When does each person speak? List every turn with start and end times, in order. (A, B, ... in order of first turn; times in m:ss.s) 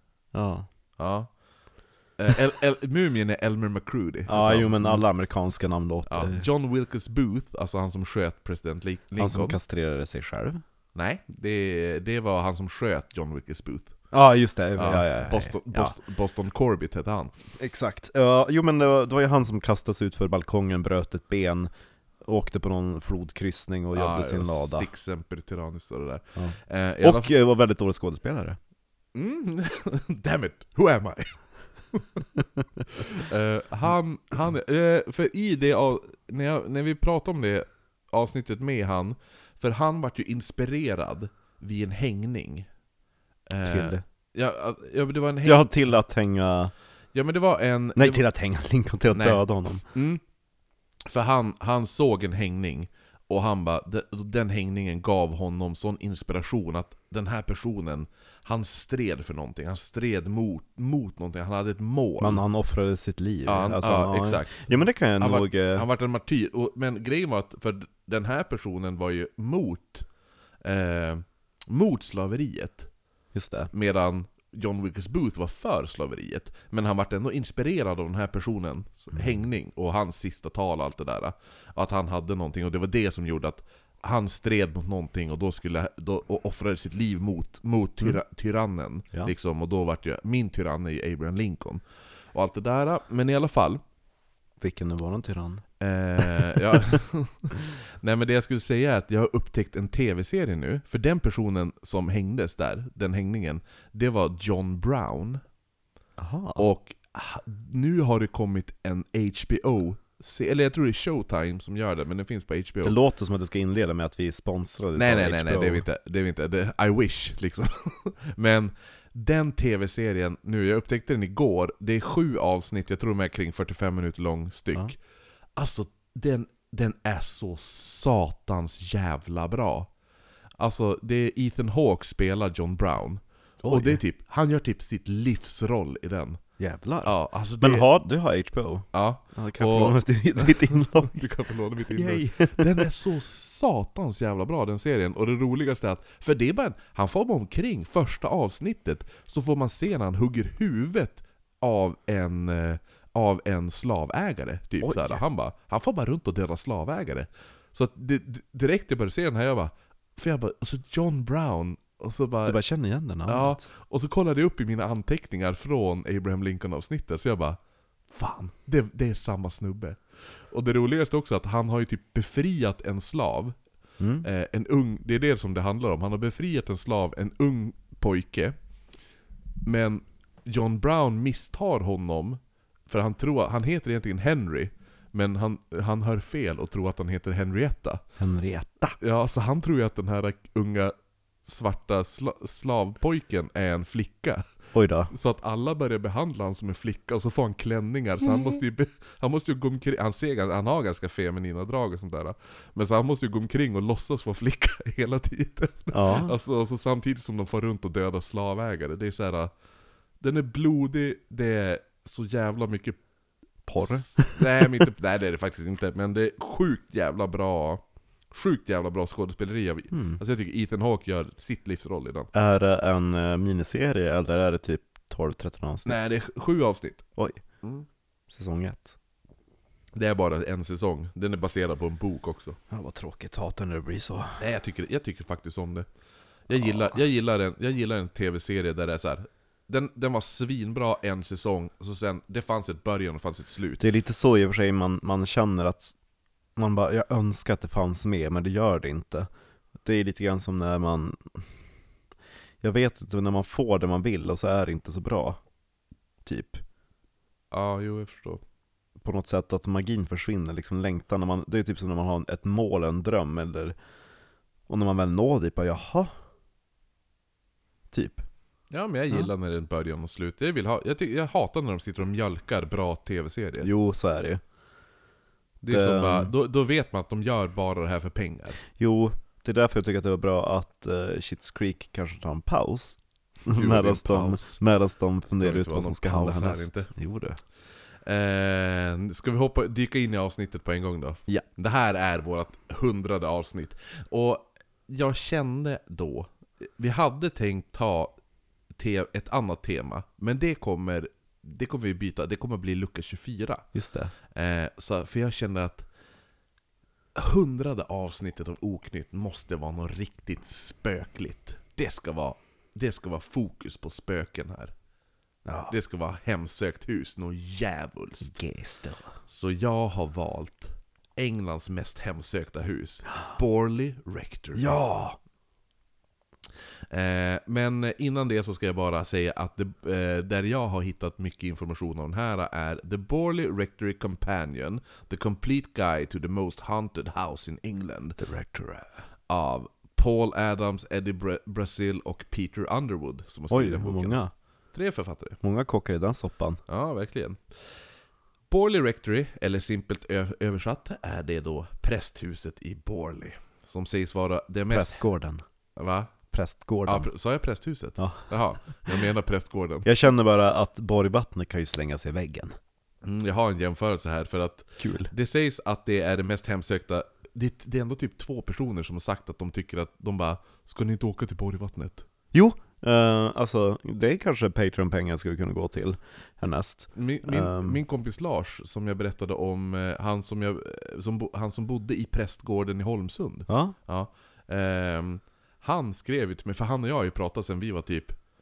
0:00.3-0:00.7 A
0:01.0-0:01.3 B
0:02.2-0:05.0 B
0:04.3-0:06.5 A
0:06.1-0:09.6 B
0:09.2-0:10.6 A
0:11.0-0:13.9 B
0:14.1-0:15.9 A
0:14.8-0:17.3 B
0:17.6-0:21.7 A
0:22.2-0:24.9 A
0:23.9-0:27.3 B
0:26.4-0:28.6 A
0:29.2-0:31.4 B
0:31.9-0:32.2 B
0:32.9-0:42.7 B
0:43.5-0:45.7 B
0:43.6-0:44.0 A
0:45.4-0:46.7 A
0:47.1-0:48.2 B
0:48.0-0:49.8 A
0:49.1-0:50.2 B
0:51.1-1:02.4 B
1:02.2-1:05.9 A
1:03.5-1:04.7 B
1:05.2-1:10.1 B
1:10.6-1:12.9 B
1:13.3-1:13.7 A
1:13.7-1:33.8 B
1:34.6-1:35.6 A
1:35.8-1:45.4 B
1:36.2-1:36.6 A
1:46.2-1:46.7 A
1:46.6-1:53.0 B
1:52.8-1:55.9 A
1:55.0-2:05.0 B
2:05.6-2:09.9 B
2:10.6-2:16.4 B
2:13.6-2:14.0 A
2:16.6-2:21.3 A
2:17.0-2:17.9 B
2:18.9-2:42.6 B
2:21.9-2:22.9 A
2:34.8-2:35.2 A
2:42.5-2:43.6 A
2:43.3-2:47.6 B
2:48.1-2:50.0 B
2:50.5-2:53.6 B
2:54.0-2:54.3 A
2:54.2-2:58.6 B
2:59.6-3:08.0 B
3:08.2-3:09.0 A
3:09.0-3:14.4 B
3:14.7-3:15.1 A
3:15.1-3:29.5 B
3:25.9-3:26.4 A
3:30.2-3:33.0 B
3:33.6-3:34.8 A
3:33.8-3:42.3 B
3:39.9-3:40.2 A
3:42.3-3:46.1 A
3:45.8-3:47.1 B
3:48.3-3:49.0 A
3:50.0-3:52.6 B
3:52.7-3:54.4 A
3:54.4-3:55.9 B
3:56.5-4:03.8 B
4:03.8-4:06.0 A
4:06.6-4:09.3 A
4:09.8-4:11.5 A
4:12.6-4:15.4 A
4:16.2-4:16.6 A
4:17.5-4:18.4 B
4:19.0-4:23.8 A
4:24.7-4:26.1 A
4:27.9-4:28.3 A
4:28.7-4:33.7 B
4:33.6-4:34.4 A
4:35.6-4:38.6 B
4:35.7-4:36.3 A
4:38.8-4:47.4 A
4:43.5-4:44.6 B
4:45.4-4:46.9 B
4:48.0-4:58.2 B
4:58.8-5:03.7 B
5:03.7-5:04.1 A
5:04.3-5:05.9 B
5:07.2-5:14.7 B
5:15.5-5:15.8 A
5:15.7-5:18.4 B
5:18.2-5:19.1 A
5:19.3-5:24.8 B
5:24.6-5:25.2 A
5:26.9-5:38.2 B
5:38.2-5:39.0 A
5:39.3-5:44.2 B
5:43.5-5:44.3 A
5:44.7-5:45.4 B
5:45.4-5:46.6 A
5:46.7-5:47.4 B
5:48.5-5:55.0 B
5:54.7-5:55.4 A
5:55.8-5:56.1 B
5:56.3-5:57.1 A
5:56.9-5:59.9 B
5:58.0-5:58.2 A
5:59.8-6:02.6 A
6:03.0-6:12.1 B
6:04.8-6:05.1 A
6:12.3-6:17.8 A
6:17.0-6:28.2 B
6:23.5-6:23.8 A